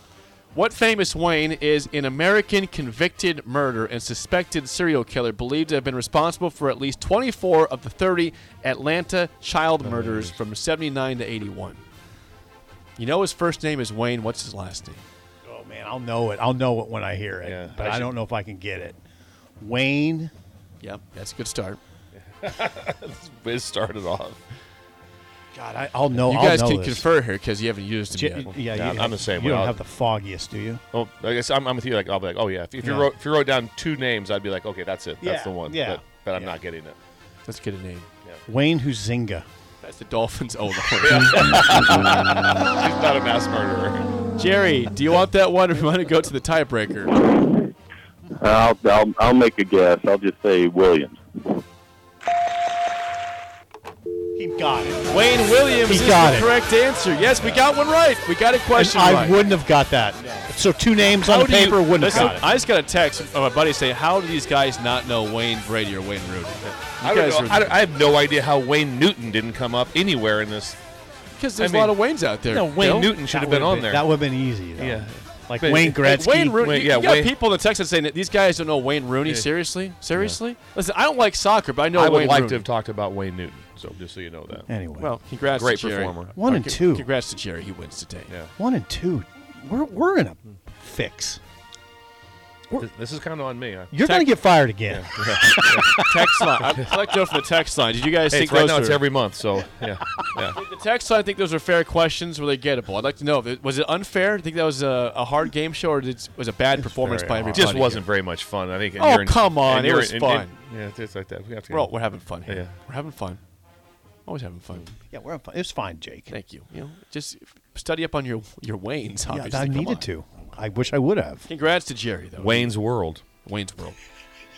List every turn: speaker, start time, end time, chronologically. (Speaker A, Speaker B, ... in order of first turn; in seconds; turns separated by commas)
Speaker A: 0.5-11.8, Speaker B: 9.8-10.4, Speaker A: 13.0-15.0, Speaker C: 15.4-19.0, Speaker B: 17.4-18.1, Speaker C: 19.6-20.3, Speaker A: 20.8-21.8, Speaker B: 22.4-24.4, Speaker C: 25.5-27.0, Speaker A: 26.2-28.6, Speaker C: 28.1-30.8, Speaker B: 28.7-29.8, Speaker B: 30.9-37.0, Speaker C: 32.8-33.1, Speaker C: 35.2-36.5, Speaker A: 37.5-38.1, Speaker C: 38.5-39.5, Speaker A: 39.8-41.5, Speaker B: 41.0-44.1, Speaker A: 44.4-47.3, Speaker D: 48.3-51.6, Speaker C: 54.4-55.1, Speaker A: 55.1-59.4, Speaker C: 55.8-56.5, Speaker C: 58.7-62.4, Speaker B: 61.1-62.4, Speaker A: 61.6-67.7, Speaker B: 66.6-70.8, Speaker A: 71.3-73.1, Speaker B: 71.6-74.0, Speaker C: 73.3-76.6, Speaker B: 74.8-77.3, Speaker A: 76.0-82.7, Speaker B: 80.1-80.4, Speaker B: 81.9-84.7, Speaker C: 84.7-85.1, Speaker A: 85.0-88.3, Speaker B: 85.5-86.5, Speaker C: 86.3-87.0, Speaker B: 88.3-88.5, Speaker C: 88.6-91.4, Speaker B: 92.8-93.9, Speaker C: 93.9-96.3, Speaker B: 94.9-96.1, Speaker A: 96.0-99.0, Speaker B: 98.3-100.6, Speaker A: 100.5-108.0, Speaker C: 106.8-107.8, Speaker B: 107.5-111.9, Speaker A: 109.0-110.5, Speaker A: 111.7-113.4, Speaker B: 112.5-112.7, Speaker A: 114.2-114.9, Speaker C: 115.1-116.3, Speaker A: 116.3-120.0, Speaker C: 119.3-121.5, Speaker A: 121.5-122.7, Speaker B: 122.4-123.2, Speaker A: 123.4-124.0